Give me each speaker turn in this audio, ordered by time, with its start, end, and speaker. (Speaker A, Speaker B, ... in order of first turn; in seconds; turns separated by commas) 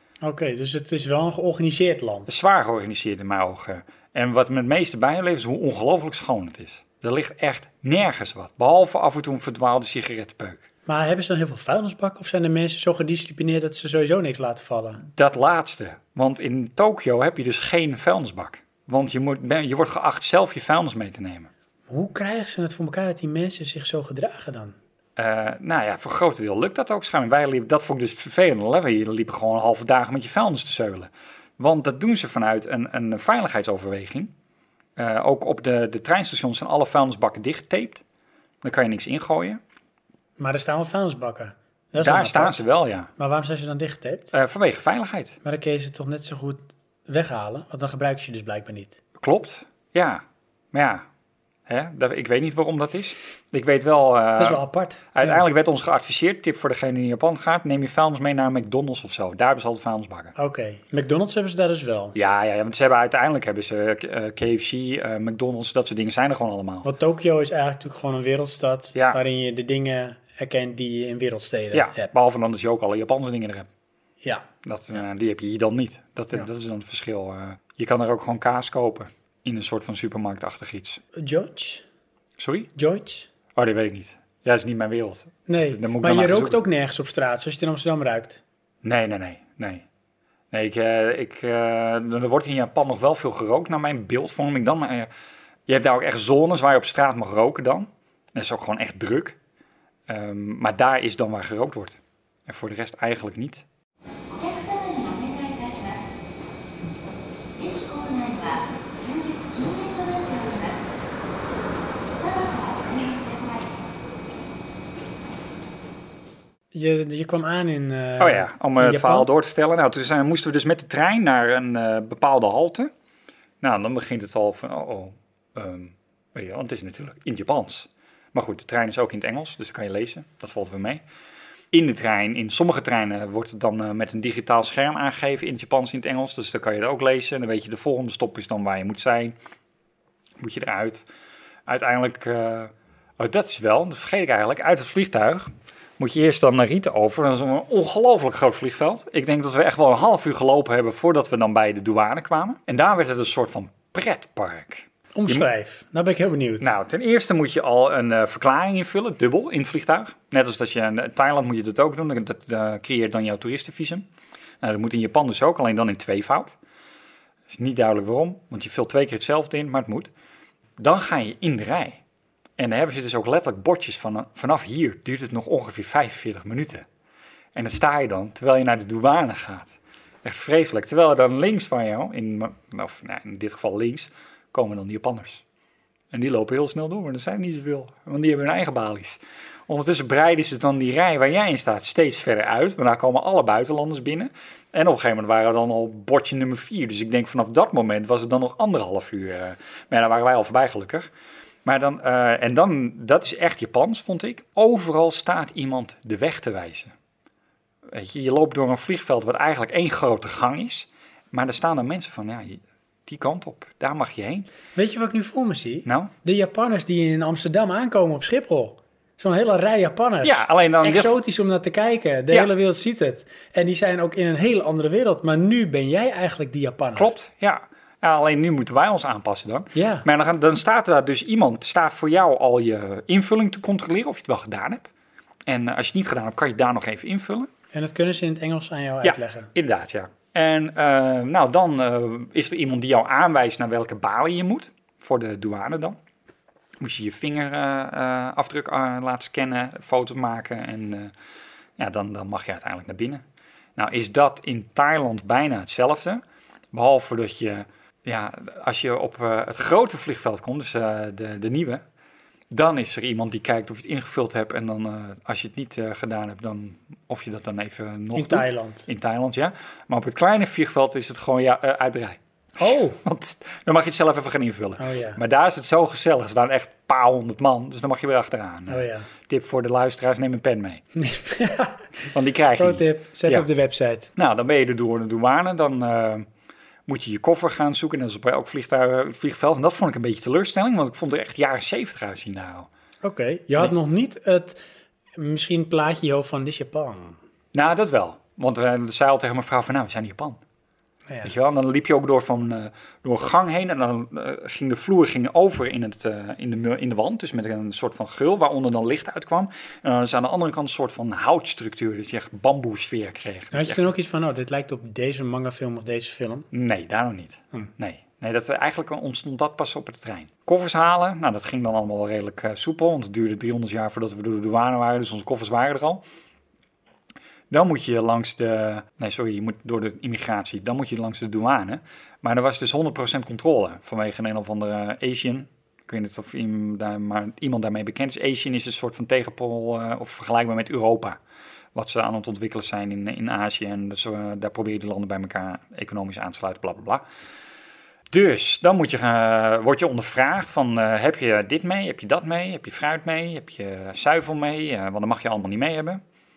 Speaker A: 0.2-2.3, Speaker B: 2.3-10.6, Speaker A: 10.8-15.0, Speaker B: 15.1-21.5, Speaker A: 21.9-24.8, Speaker B: 25.1-34.3, Speaker B: 35.0-38.0, Speaker B: 38.6-39.6, Speaker A: 40.4-42.6, Speaker B: 42.0-43.1, Speaker A: 43.2-44.3, Speaker B: 44.3-45.4, Speaker A: 45.4-49.0, Speaker B: 49.2-51.0, Speaker B: 51.7-54.6, Speaker A: 54.4-55.4, Speaker B: 55.1-60.3, Speaker A: 60.4-62.1, Speaker B: 62.1-66.9, Speaker A: 66.8-72.1, Speaker B: 68.9-69.2, Speaker B: 71.7-73.7, Speaker B: 74.6-81.0, Speaker A: 81.2-81.8, Speaker B: 82.4-82.7, Speaker A: 82.8-83.3, Speaker B: 83.5-86.6, Speaker A: 85.5-88.4, Speaker B: 88.8-89.8, Speaker B: 90.5-95.1, Speaker B: 95.7-99.4, Speaker B: 100.1-103.6, Speaker C: 104.3-106.2, Speaker C: 107.5-110.9, Speaker C: 112.2-113.9, Speaker A: 116.7-119.3, Speaker B: 118.2-122.9, Speaker B: 123.6-131.0, Speaker B: 131.7-139.3, Speaker B: 140.4-141.1, Speaker B: 141.7-155.5, Speaker A: 155.1-156.7, Speaker B: 156.6-164.1, Speaker B: 164.6-166.6, Speaker B: 167.5-170.1, Speaker B: 170.8-172.0, Speaker B: 172.6-176.8, Speaker B: 177.5-185.4, Speaker B: 186.1-201.1, Speaker B: 201.6-206.9, Speaker B: 207.9-214.5, Speaker A: 214.7-227.1, Speaker B: 215.8-216.1, Speaker B: 220.2-221.1, Speaker B: 226.9-234.9, Speaker A: 229.7-230.1, Speaker B: 235.5-237.5, Speaker A: 237.7-239.5, Speaker B: 239.0-246.0, Speaker B: 246.8-251.1, Speaker B: 251.8-253.2, Speaker B: 253.8-261.8, Speaker B: 262.5-280.8, Speaker A: 268.1-268.9, Speaker A: 272.6-273.0, Speaker A: 274.8-275.2, Speaker A: 278.7-279.1, Speaker A: 280.9-281.8, Speaker B: 282.1-283.5, Speaker A: 282.6-284.1, Speaker B: 284.1-286.3, Speaker B: 286.9-292.7, Speaker A: 293.0-294.6, Speaker A: 295.1-297.2, Speaker B: 297.5-300.4, Speaker B: 301.2-313.9, Speaker A: 313.5-316.5, Speaker B: 316.5-326.0, Speaker B: 327.5-341.2, Speaker B: 341.7-347.0, Speaker B: 348.1-356.0